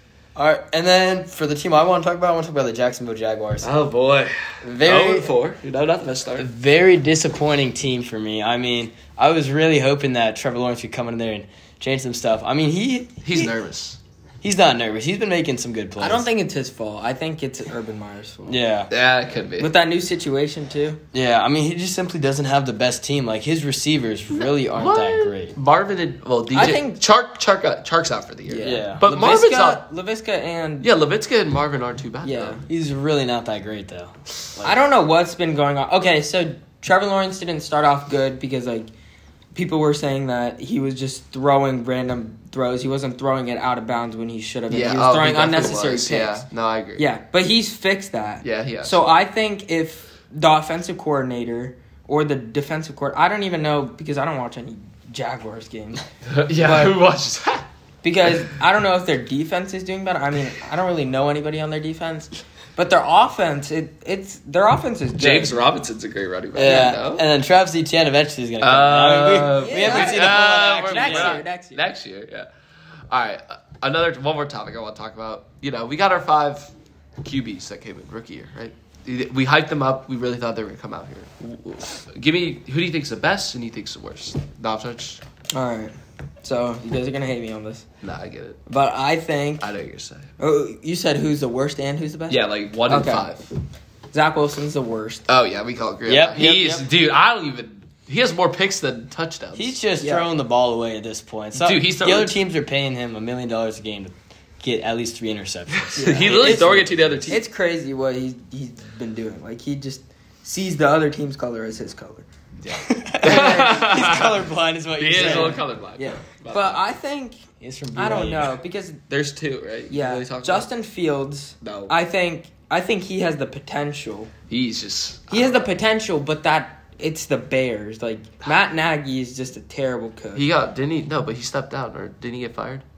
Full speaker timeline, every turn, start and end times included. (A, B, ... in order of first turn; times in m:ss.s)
0:00.4-0:03.7 A
0:03.6-0:06.5 B
0:04.6-0:05.3 A
0:06.4-0:13.5 A
0:13.2-0:14.0 B
0:14.4-0:16.2 A
0:16.0-0:18.6 C
0:18.5-0:18.9 A
0:18.9-0:19.7 B
0:19.6-0:21.0 C
0:21.1-0:25.6 A
0:24.3-0:29.8 B
0:26.5-0:27.0 C
0:28.5-0:30.9 C
0:28.6-0:29.0 A
0:30.8-0:32.6 B
0:32.2-0:32.6 C
0:32.7-0:34.8 A
0:34.6-0:38.9 C
0:39.5-0:46.4 C
0:44.7-0:47.0 B
0:47.0-0:56.0 C
0:48.4-0:49.1 B
0:56.3-0:57.7 B
0:56.6-0:57.0 C
0:58.0-1:05.6 C
1:05.2-1:07.2 B
1:06.6-1:11.4 A
1:08.6-1:12.5 B
1:09.6-1:11.8 C
1:13.1-1:25.2 B
1:25.5-1:27.9 C
1:28.0-1:28.6 B
1:28.7-1:29.7 C
1:29.6-1:30.3 B
1:30.4-1:33.3 C
1:32.3-1:33.5 B
1:34.1-1:35.2 C
1:35.3-1:39.7 B
1:36.1-1:36.9 A
1:39.6-1:47.3 A
1:40.0-1:40.3 C
1:41.6-1:42.4 B
1:45.8-1:47.4 B
1:46.0-1:46.6 C
1:47.3-1:52.3 C
1:52.6-1:54.4 B
1:52.7-1:55.6 A
1:53.2-1:53.9 C
1:55.0-1:56.8 B
1:55.2-1:57.4 C
1:57.6-1:58.6 A
1:58.0-1:59.0 C
1:59.1-2:00.7 B
1:59.9-2:04.3 C
2:01.6-2:01.9 B
2:04.5-2:05.6 B
2:05.3-2:10.4 C
2:10.3-2:12.8 B